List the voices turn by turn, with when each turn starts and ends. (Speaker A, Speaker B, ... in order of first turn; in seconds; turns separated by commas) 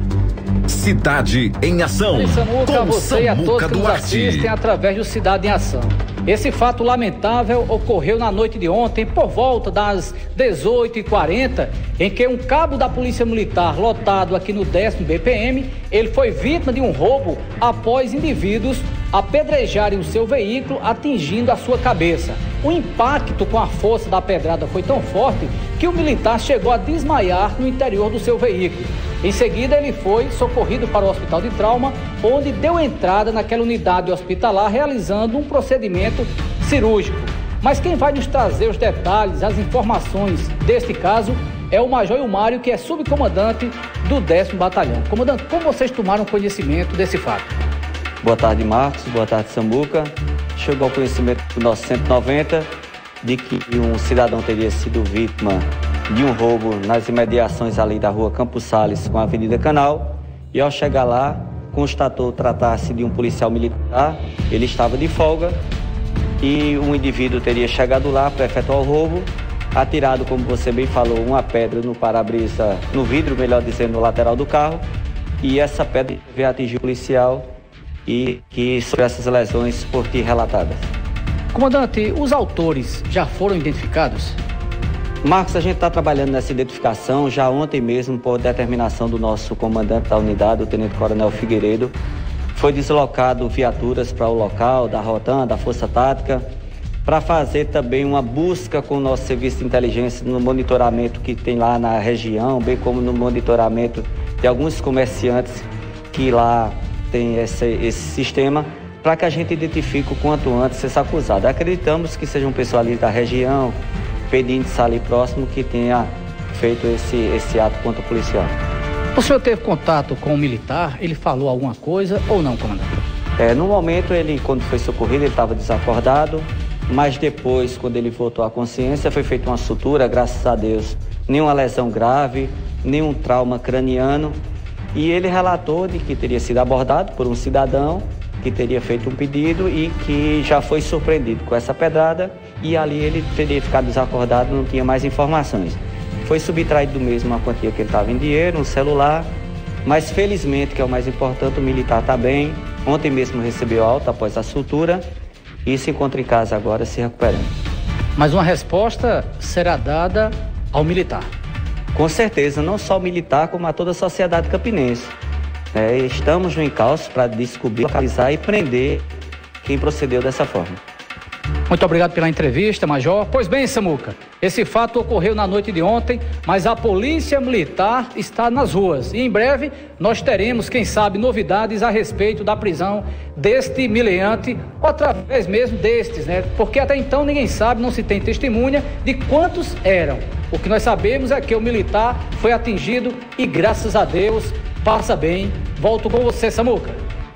Speaker A: 0.7-4.5, Speaker B: 2.1-47.5, Speaker C: 48.2-52.7, Speaker C: 53.2-65.6, Speaker C: 66.4-74.8, Speaker C: 75.4-77.5, Speaker C: 78.0-80.9, Speaker B: 81.5-84.4, Speaker C: 85.2-91.9, Speaker C: 92.5-96.4, Speaker C: 97.0-113.8, Speaker C: 114.3-118.5, Speaker B: 119.1-123.0, Speaker C: 123.4-134.3, Speaker C: 134.9-149.3, Speaker C: 149.8-155.0, Speaker C: 155.6-157.5, Speaker B: 158.2-161.3, Speaker C: 161.9-165.2, Speaker C: 165.7-169.1, Speaker C: 169.6-170.8, Speaker B: 171.7-197.0